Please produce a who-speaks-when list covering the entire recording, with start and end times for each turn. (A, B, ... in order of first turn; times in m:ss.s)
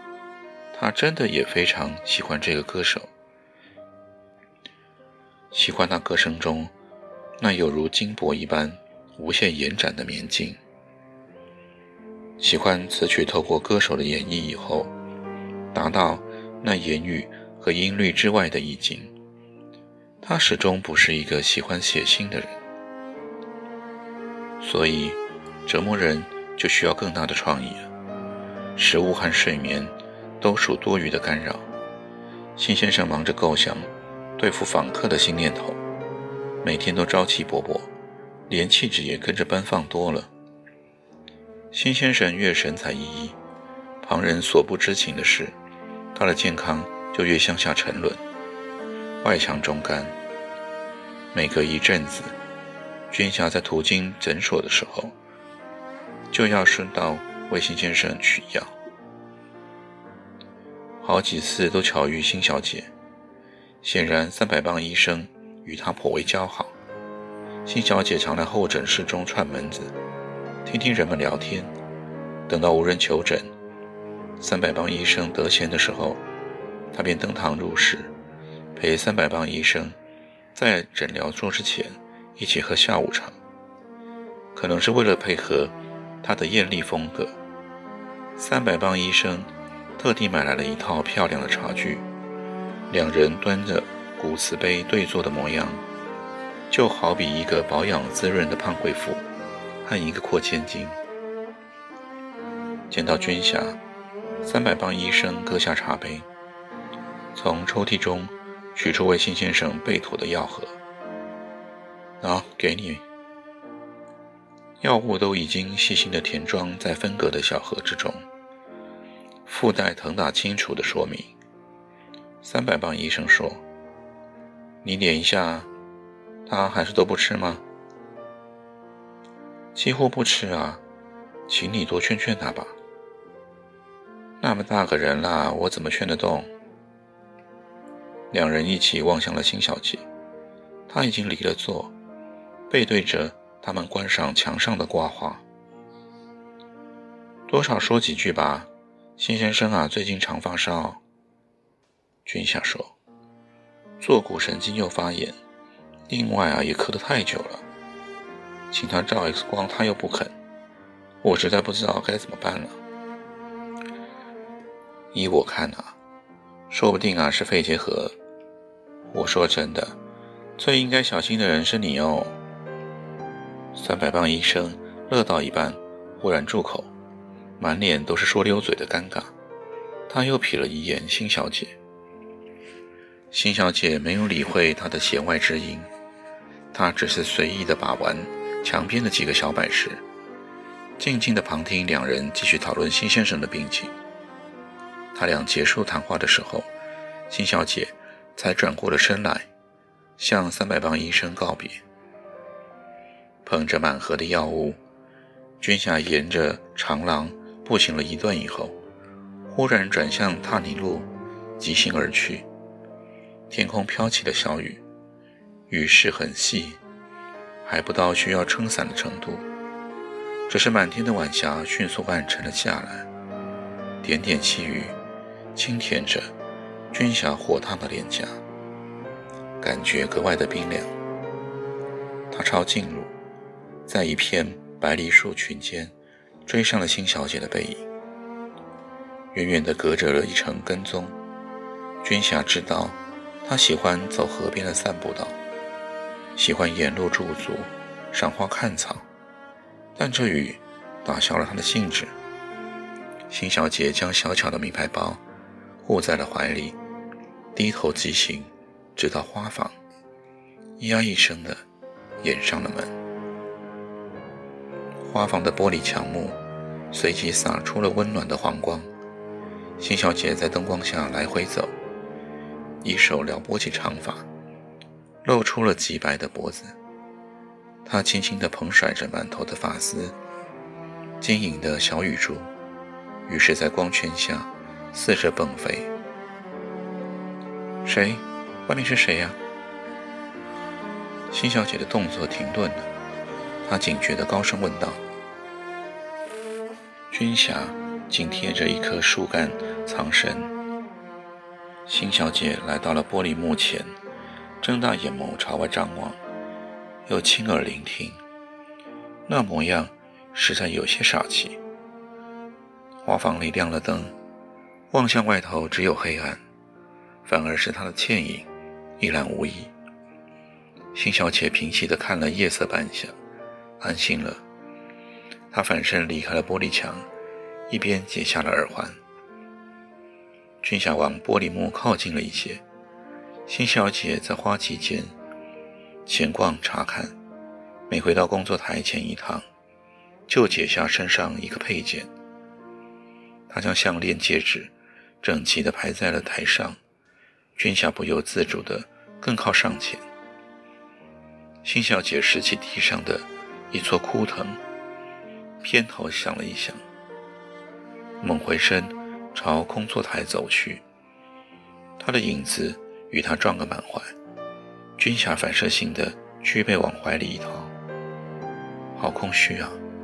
0:00.7-0:03.1 A
0:05.5-0:06.7 A
0:07.4-0:10.6 A
0:12.4-0:14.9 A
0:15.7-0:19.1 A
0:20.2-0:22.6 A
0:24.6-0:27.9 A
0:28.8-0:31.7 A
0:32.6-0:35.8 A
0:36.6-0:37.9 A
0:38.5-0:40.3 A
0:41.7-0:43.4 A
0:44.0-0:45.5 A
0:46.1-0:48.2 A
0:49.2-0:50.2 A
0:51.3-0:52.4 A
0:53.1-0:55.1 A
0:56.3-0:58.7 A
1:01.0-1:02.9 A
1:03.8-1:06.8 A
1:07.6-1:09.9 A
1:10.6-1:11.7 A
1:12.5-1:13.5 A
1:14.4-1:16.2 A
1:16.9-1:18.1 A
1:18.7-1:19.9 A
1:20.5-1:23.4 A
1:24.5-1:27.4 A
1:28.4-1:32.1 A
1:32.9-1:35.8 A
1:36.7-1:39.2 A
1:39.8-1:41.0 A
1:42.9-1:43.8 A
1:44.4-1:46.3 A
1:47.3-1:50.8 A
1:52.2-1:53.0 A
1:54.8-1:58.2 A
1:59.4-2:01.3 A
2:02.4-2:03.6 A
2:04.8-2:05.7 A
2:06.4-2:07.6 A
2:09.7-2:10.8 A
2:11.5-2:12.8 A
2:14.4-2:16.5 A
2:18.3-2:20.0 A
2:20.9-2:21.9 A
2:22.7-2:25.4 A
2:27.5-2:31.0 A
2:32.2-2:33.0 A
2:34.0-2:35.4 A
2:36.1-2:37.6 A
2:38.7-2:40.3 A
2:41.2-2:42.8 A
2:45.1-2:46.0 A
2:46.7-2:48.2 A
2:49.1-2:50.0 A
2:50.6-2:52.4 A
2:53.7-2:56.9 A
2:57.6-2:59.3 A
3:00.1-3:01.8 A
3:03.3-3:05.9 A
3:06.7-3:10.0 A
3:11.0-3:13.9 A
3:15.1-3:16.7 A
3:17.3-3:19.5 A
3:20.2-3:21.8 A
3:23.4-3:24.8 A
3:25.6-3:28.8 A
3:29.4-3:32.5 A
3:33.5-3:34.8 A
3:35.7-3:36.8 A
3:37.6-3:39.4 A
3:40.5-3:43.1 A
3:44.0-3:45.0 A
3:45.5-3:46.3 A
3:46.9-3:48.4 A
3:49.6-3:50.9 A
3:52.3-3:53.1 A
3:53.8-3:55.9 A
3:56.4-3:57.8 A
3:59.3-4:01.1 A
4:02.0-4:05.4 A
4:06.4-4:09.0 A
4:10.0-4:12.1 A
4:13.3-4:15.2 A
4:15.8-4:16.8 A
4:17.5-4:19.7 A
4:20.8-4:21.6 A
4:22.2-4:22.9 A
4:25.0-4:26.4 A
4:26.9-4:28.9 A
4:29.8-4:31.7 A
4:32.8-4:34.2 A
4:35.2-4:36.8 A
4:37.8-4:40.2 A
4:41.2-4:42.5 A
4:43.3-4:45.9 A
4:47.8-4:49.4 A
4:51.3-4:52.9 A
4:53.6-4:55.0 A
4:57.1-5:00.5 A
5:01.8-5:03.9 A
5:04.6-5:06.2 A
5:07.0-5:08.2 A
5:09.3-5:11.6 A
5:13.0-5:14.1 A
5:14.9-5:16.4 A
5:17.2-5:19.7 A
5:20.9-5:23.1 A
5:23.8-5:24.4 A
5:25.5-5:27.1 A
5:27.7-5:29.0 A
5:30.6-5:32.6 A
5:33.5-5:35.1 A
5:36.0-5:37.1 A
5:37.9-5:39.4 A
5:40.3-5:42.1 A
5:43.5-5:46.8 A
5:47.6-5:50.0 A
5:51.6-5:54.6 A
5:55.6-5:56.8 A
5:58.2-6:00.8 A
6:02.0-6:04.1 A
6:05.0-6:07.7 A
6:08.9-6:09.8 A